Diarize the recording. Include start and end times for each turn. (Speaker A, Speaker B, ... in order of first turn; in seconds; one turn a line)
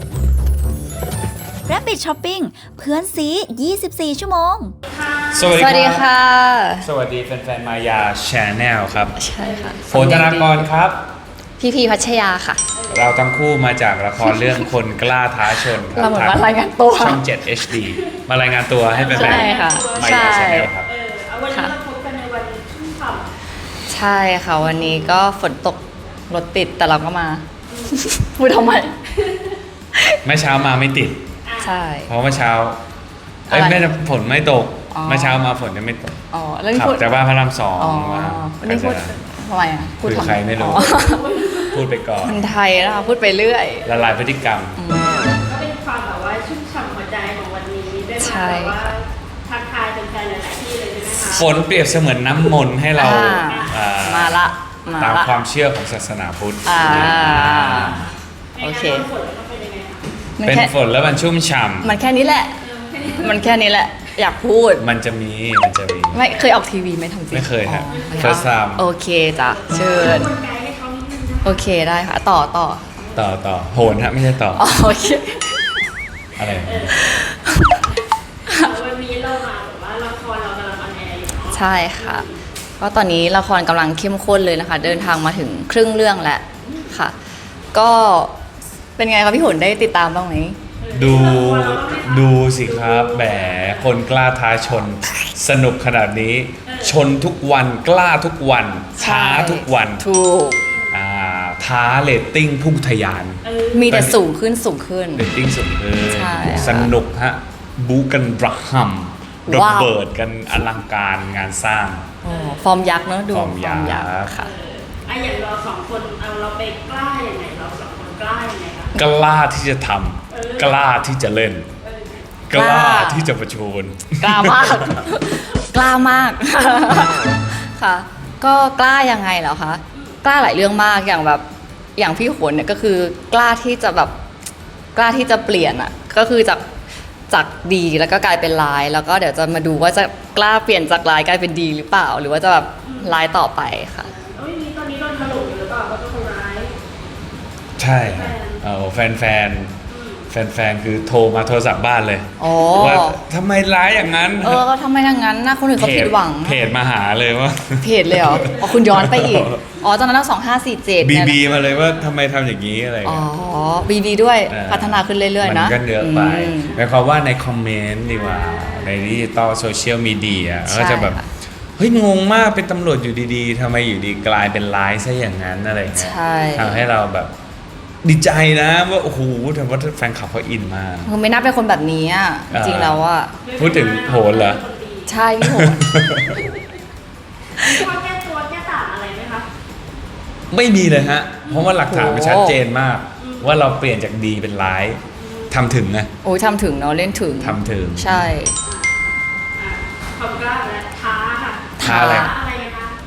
Speaker A: 1.7-4.7
Speaker B: 4.9-5.7
Speaker C: 5.3-6.1
Speaker D: 5.5-6.9
Speaker C: 6.8-9.2
Speaker D: 9.2-10.7
Speaker B: 9.4-9.8
Speaker C: 9.9-11.1
Speaker D: 11.6-12.6
Speaker B: 12.7-13.2
Speaker C: 12.9-20.9
Speaker D: 14.2-14.7
Speaker D: 15.8-17.2
Speaker B: 18.9-23.3
Speaker D: 19.1-20.7
Speaker D: 23.9-29.0
Speaker B: 24.7-25.2
Speaker B: 27.7-28.0
Speaker C: 30.2-31.2
Speaker B: 31.4-31.8
Speaker D: 31.6-32.1
Speaker C: 32.1-32.8
Speaker D: 33.5-33.9
Speaker C: 33.5-36.2
Speaker D: 34.9-35.4
Speaker D: 36.3-37.1
Speaker C: 36.8-39.2
Speaker D: 37.8-41.3
Speaker C: 40.0-40.9
Speaker B: 40.7-41.8
Speaker C: 41.7-42.4
Speaker D: 42.2-43.9
Speaker B: 42.7-44.1
Speaker C: 43.9-44.8
Speaker D: 44.8-45.4
Speaker B: 45.5-51.5
Speaker D: 48.2-48.9
Speaker C: 51.2-58.1
Speaker D: 53.0-55.4
Speaker B: 53.3-53.8
Speaker D: 56.6-58.1
Speaker B: 58.6-60.1
Speaker D: 58.6-59.1
Speaker D: 60.4-60.7
Speaker C: 60.4-62.0
Speaker D: 61.8-62.6
Speaker B: 62.6-63.8
Speaker D: 63.2-64.8
Speaker C: 64.8-66.2
Speaker D: 66.1-70.3
Speaker C: 67.3-68.8
Speaker B: 67.8-68.5
Speaker B: 69.5-71.7
Speaker D: 71.4-72.9
Speaker B: 73.0-73.3
Speaker C: 73.2-74.7
Speaker D: 74.5-75.6
Speaker C: 76.4-77.0
Speaker B: 76.7-77.3
Speaker D: 76.9-77.8
Speaker B: 78.5-82.4
Speaker D: 81.5-82.2
Speaker D: 82.8-87.2
Speaker B: 86.6-87.0
Speaker D: 87.7-88.3
Speaker D: 89.0-90.6
Speaker B: 90.8-94.0
Speaker C: 90.9-100.1
Speaker B: 96.7-97.0
Speaker D: 99.0-100.6
Speaker B: 100.4-101.0
Speaker C: 100.9-104.2
Speaker B: 103.4-104.0
Speaker D: 103.7-105.3
Speaker C: 105.2-112.1
Speaker D: 106.1-106.9
Speaker D: 109.5-109.9
Speaker D: 112.2-114.5
Speaker B: 112.3-112.7
Speaker C: 113.3-114.4
Speaker B: 114.3-118.9
Speaker C: 119.0-121.7
Speaker B: 120.3-120.8
Speaker B: 121.8-122.3
Speaker C: 122.5-125.0
Speaker D: 122.5-123.3
Speaker D: 124.2-131.4
Speaker B: 129.9-130.2
Speaker D: 132.0-134.1
Speaker D: 134.9-136.6
Speaker D: 137.3-144.1
Speaker B: 142.8-143.2
Speaker B: 144.1-146.8
Speaker C: 147.8-149.8
Speaker B: 148.0-148.6
Speaker B: 149.9-150.3
Speaker C: 150.3-154.7
Speaker D: 152.4-153.2
Speaker D: 154.4-156.6
Speaker C: 155.8-159.6
Speaker D: 157.8-161.4
Speaker B: 158.4-158.9
Speaker C: 161.0-163.3
Speaker B: 161.5-162.1
Speaker D: 163.1-166.8
Speaker C: 164.5-171.2
Speaker B: 168.1-169.1
Speaker D: 170.7-171.3
Speaker C: 171.8-177.3
Speaker D: 176.0-176.9
Speaker B: 176.3-176.6
Speaker C: 178.0-181.1
Speaker D: 181.1-183.4
Speaker C: 182.5-183.0
Speaker B: 183.4-185.2
Speaker C: 183.6-184.6
Speaker D: 185.1-185.9
Speaker C: 185.4-186.5
Speaker B: 186.3-186.6
Speaker B: 187.6-189.5
Speaker C: 190.5-196.1
Speaker B: 191.4-191.8
Speaker D: 191.8-192.6
Speaker B: 193.2-193.7
Speaker B: 195.2-195.6
Speaker D: 196.2-198.6
Speaker C: 197.4-198.3
Speaker B: 198.6-203.0
Speaker D: 201.8-202.3
Speaker C: 201.8-202.3